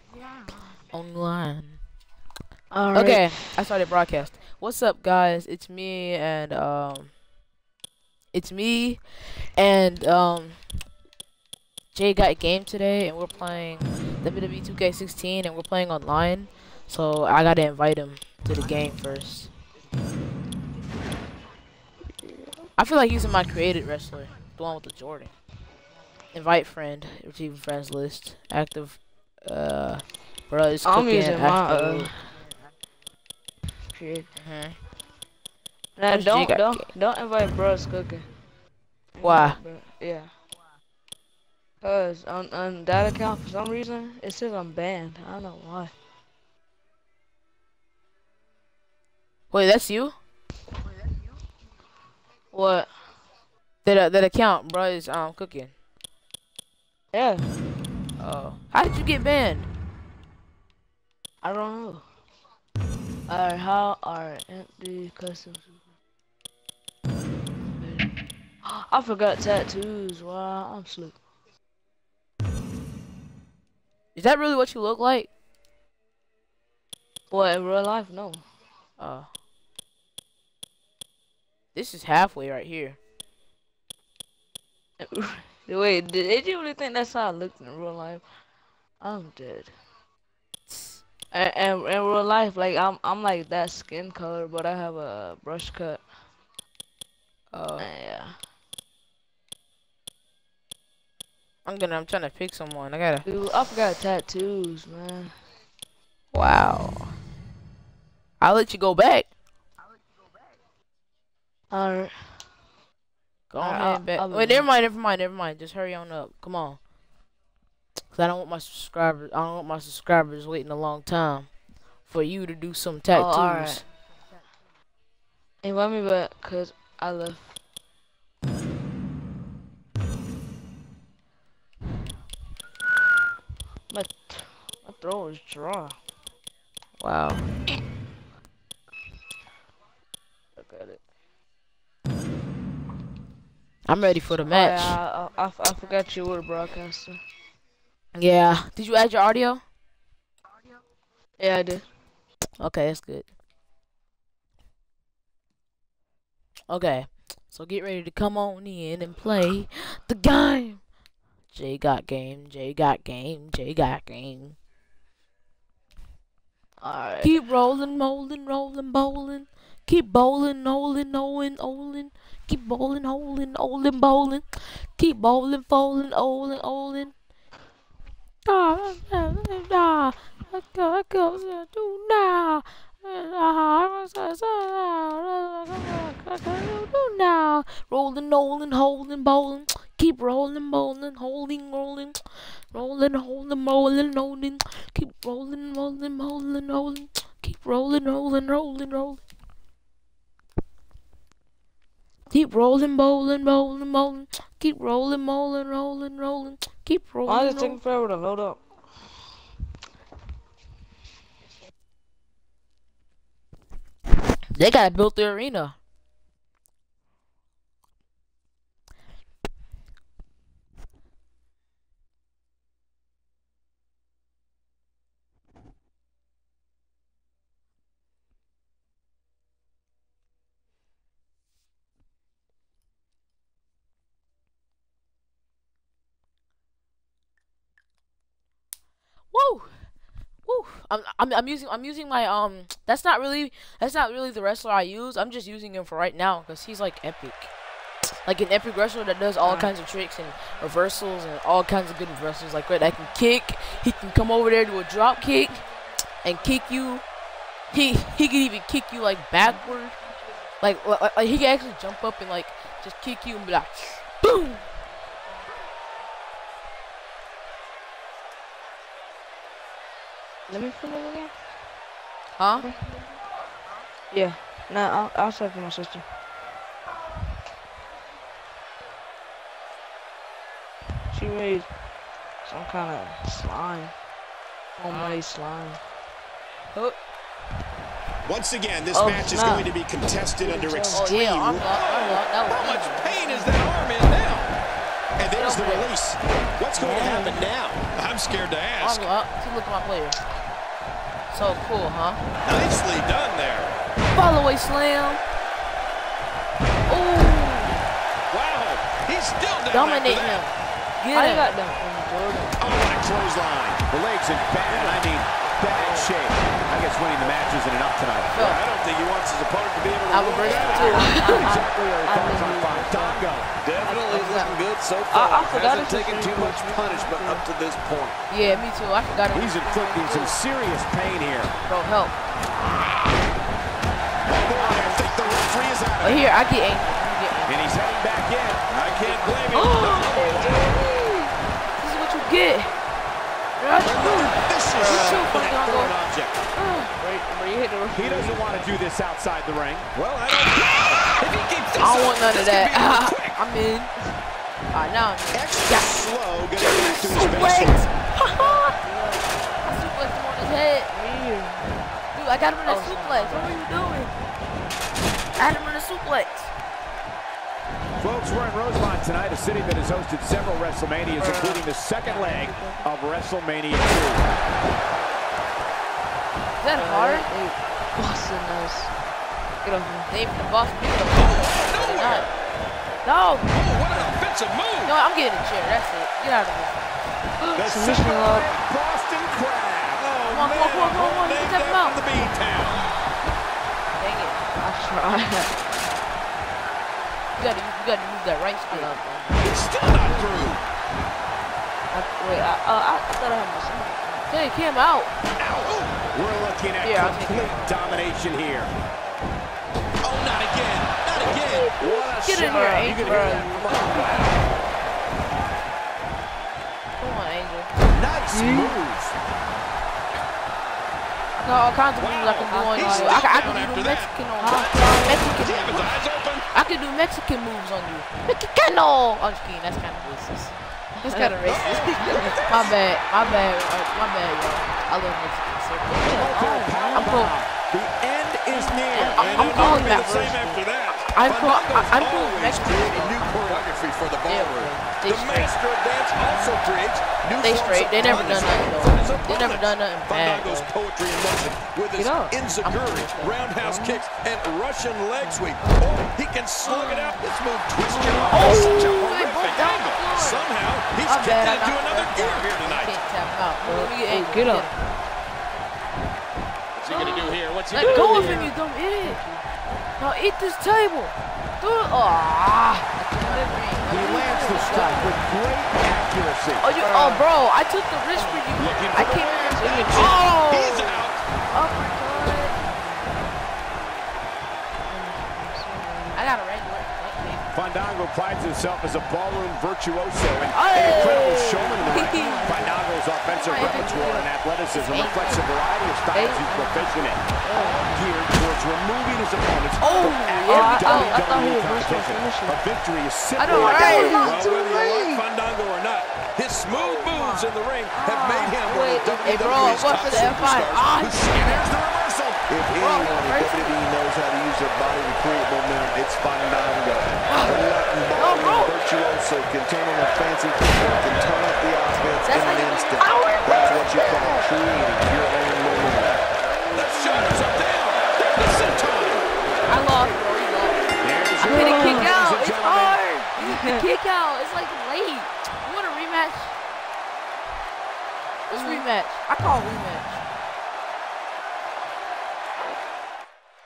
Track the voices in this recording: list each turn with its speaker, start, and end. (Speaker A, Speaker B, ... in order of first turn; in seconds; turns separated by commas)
Speaker A: 0.9-1.8, Speaker B: 2.7-3.5, Speaker A: 2.9-7.1, Speaker A: 8.3-9.0, Speaker A: 9.6-10.6, Speaker A: 11.9-19.5, Speaker A: 22.8-25.3, Speaker A: 26.3-32.1, Speaker B: 30.9-32.1, Speaker B: 33.9-34.3, Speaker A: 34.4-34.8, Speaker B: 36.0-38.2, Speaker A: 36.1-36.9, Speaker B: 39.1-40.3, Speaker A: 39.2-39.6, Speaker B: 41.8-45.9, Speaker A: 49.5-50.1, Speaker B: 52.5-52.9, Speaker A: 53.9-55.7, Speaker B: 57.1-57.5, Speaker A: 58.2-59.7, Speaker B: 61.4-62.0, Speaker B: 63.3-65.7, Speaker B: 68.6-71.2, Speaker A: 74.2-75.3, Speaker B: 77.3-78.4, Speaker A: 79.0-79.3, Speaker A: 81.7-83.0, Speaker B: 85.0-88.2, Speaker B: 89.0-89.7, Speaker A: 90.7-91.0, Speaker B: 91.3-96.0, Speaker A: 97.5-97.9, Speaker B: 97.8-98.3, Speaker A: 101.7-103.3, Speaker B: 103.2-105.3, Speaker A: 106.3-107.1, Speaker A: 108.4-109.3, Speaker B: 111.7-112.1, Speaker A: 113.5-116.8, Speaker B: 113.6-114.7, Speaker A: 118.1-121.5, Speaker A: 122.1-123.8, Speaker B: 123.1-123.8, Speaker B: 125.6-127.5, Speaker B: 133.9-135.9, Speaker A: 137.0-137.4, Speaker B: 140.6-141.0, Speaker A: 143.9-145.0, Speaker B: 144.4-147.2, Speaker A: 148.2-149.6, Speaker B: 151.4-151.8, Speaker A: 152.6-153.3, Speaker A: 156.7-160.8, Speaker A: 161.5-164.6, Speaker B: 166.8-167.4, Speaker A: 167.2-177.1, Speaker A: 178.5-192.2, Speaker A: 192.7-199.2, Speaker A: 202.3-207.8, Speaker B: 207.3-208.6, Speaker A: 214.6-215.8, Speaker A: 239.3-239.7, Speaker A: 240.4-247.5, Speaker A: 248.2-255.6, Speaker B: 249.4-249.7, Speaker A: 256.2-257.0, Speaker A: 257.7-260.0, Speaker A: 260.6-264.5, Speaker B: 270.5-271.3, Speaker A: 272.4-272.7, Speaker B: 274.1-276.1, Speaker B: 281.1-281.7, Speaker B: 282.4-283.9, Speaker B: 284.8-285.8, Speaker C: 288.3-291.7, Speaker B: 288.9-289.7, Speaker B: 290.4-291.1, Speaker A: 290.9-293.4, Speaker D: 291.6-294.6, Speaker C: 295.2-297.9, Speaker A: 295.4-295.9, Speaker B: 296.7-297.4, Speaker D: 297.9-299.1, Speaker A: 298.8-300.2, Speaker A: 301.3-302.2, Speaker D: 302.4-303.7, Speaker A: 304.1-305.2, Speaker A: 306.9-307.8, Speaker D: 308.3-310.5, Speaker A: 309.7-310.5, Speaker B: 311.0-312.9, Speaker A: 311.1-311.5, Speaker D: 312.6-313.8, Speaker C: 312.6-318.5, Speaker D: 315.8-316.1, Speaker A: 318.3-318.6, Speaker D: 318.4-321.1, Speaker A: 320.1-321.5, Speaker C: 320.4-323.5, Speaker B: 320.5-323.3, Speaker E: 323.6-328.2, Speaker B: 323.8-324.4, Speaker A: 324.1-324.6, Speaker B: 325.1-327.4, Speaker A: 328.3-330.4, Speaker C: 329.3-331.5, Speaker A: 331.7-332.2, Speaker C: 334.2-336.3, Speaker B: 334.6-335.3, Speaker A: 334.7-335.2, Speaker A: 336.0-338.2, Speaker C: 337.5-338.7, Speaker D: 338.7-340.8, Speaker A: 338.8-342.7, Speaker A: 343.6-345.9, Speaker C: 343.9-346.4, Speaker A: 346.6-346.9, Speaker B: 347.0-348.7, Speaker C: 347.9-349.9, Speaker D: 349.9-353.4, Speaker A: 351.8-353.9, Speaker A: 354.7-355.9, Speaker C: 355.3-357.9, Speaker A: 356.6-358.8, Speaker B: 358.4-359.3, Speaker A: 359.6-360.9, Speaker B: 360.9-361.7, Speaker A: 362.1-364.1, Speaker B: 362.7-364.0, Speaker A: 365.4-366.5, Speaker C: 368.0-374.3, Speaker B: 371.2-372.9, Speaker A: 376.6-377.3, Speaker B: 376.7-378.9, Speaker B: 379.6-380.1, Speaker A: 380.1-382.3, Speaker D: 381.1-382.3, Speaker A: 383.0-384.2, Speaker D: 383.5-384.9, Speaker A: 384.8-386.8, Speaker B: 387.4-388.5, Speaker C: 387.6-390.1, Speaker D: 390.0-392.9, Speaker A: 390.3-392.0, Speaker A: 394.0-394.5, Speaker B: 394.6-395.6, Speaker A: 397.4-399.4, Speaker B: 398.7-399.1, Speaker D: 399.4-400.6, Speaker B: 401.9-404.3, Speaker A: 404.3-405.1, Speaker D: 405.4-406.1, Speaker C: 406.1-408.7, Speaker A: 406.8-407.9, Speaker D: 410.0-411.3, Speaker C: 410.9-412.1, Speaker B: 411.3-414.4, Speaker A: 411.5-414.0, Speaker C: 412.8-414.4, Speaker A: 417.0-417.7, Speaker C: 417.9-419.2, Speaker B: 418.3-418.8, Speaker A: 421.4-426.0, Speaker D: 422.0-424.2, Speaker B: 422.5-423.3, Speaker B: 424.4-425.3, Speaker D: 425.3-426.5, Speaker A: 426.5-437.3, Speaker B: 431.0-432.4, Speaker D: 431.4-432.8, Speaker C: 436.0-439.3, Speaker B: 436.2-437.2, Speaker B: 438.5-440.6, Speaker A: 438.9-440.6, Speaker D: 439.2-463.0, Speaker A: 441.1-445.6, Speaker A: 447.4-450.7, Speaker B: 452.0-452.4, Speaker A: 452.6-453.4, Speaker B: 453.6-454.0, Speaker B: 455.2-455.8, Speaker B: 456.6-457.3, Speaker B: 457.9-458.9, Speaker A: 458.3-460.5, Speaker A: 461.1-464.9, Speaker B: 463.6-464.9, Speaker D: 466.8-468.5, Speaker A: 466.9-469.2, Speaker B: 467.7-469.4, Speaker A: 470.0-475.1, Speaker B: 473.0-475.1, Speaker C: 473.9-476.6, Speaker A: 476.6-481.1, Speaker B: 476.8-477.2, Speaker B: 478.1-478.5, Speaker C: 478.6-480.1, Speaker D: 479.6-481.2, Speaker B: 481.5-483.2, Speaker B: 484.9-486.3, Speaker A: 486.1-487.6, Speaker C: 487.5-504.3, Speaker B: 490.5-492.8, Speaker A: 490.7-492.7, Speaker A: 493.3-495.5, Speaker B: 493.6-494.2, Speaker B: 494.9-495.4, Speaker A: 496.1-497.0, Speaker B: 497.4-498.0, Speaker A: 499.8-501.2, Speaker B: 500.0-502.6, Speaker A: 503.4-505.2, Speaker B: 503.5-505.2, Speaker D: 503.5-511.7, Speaker B: 506.7-510.8, Speaker A: 509.2-511.7, Speaker C: 511.3-512.5, Speaker E: 512.5-526.2, Speaker A: 512.7-513.8, Speaker A: 517.3-518.8, Speaker A: 522.2-524.5, Speaker B: 523.0-523.8, Speaker C: 524.4-524.9, Speaker A: 526.4-527.4, Speaker D: 526.7-529.3, Speaker A: 529.7-536.5, Speaker C: 531.0-533.0, Speaker B: 531.4-532.2, Speaker B: 533.3-533.8, Speaker A: 538.5-540.2, Speaker B: 538.6-538.9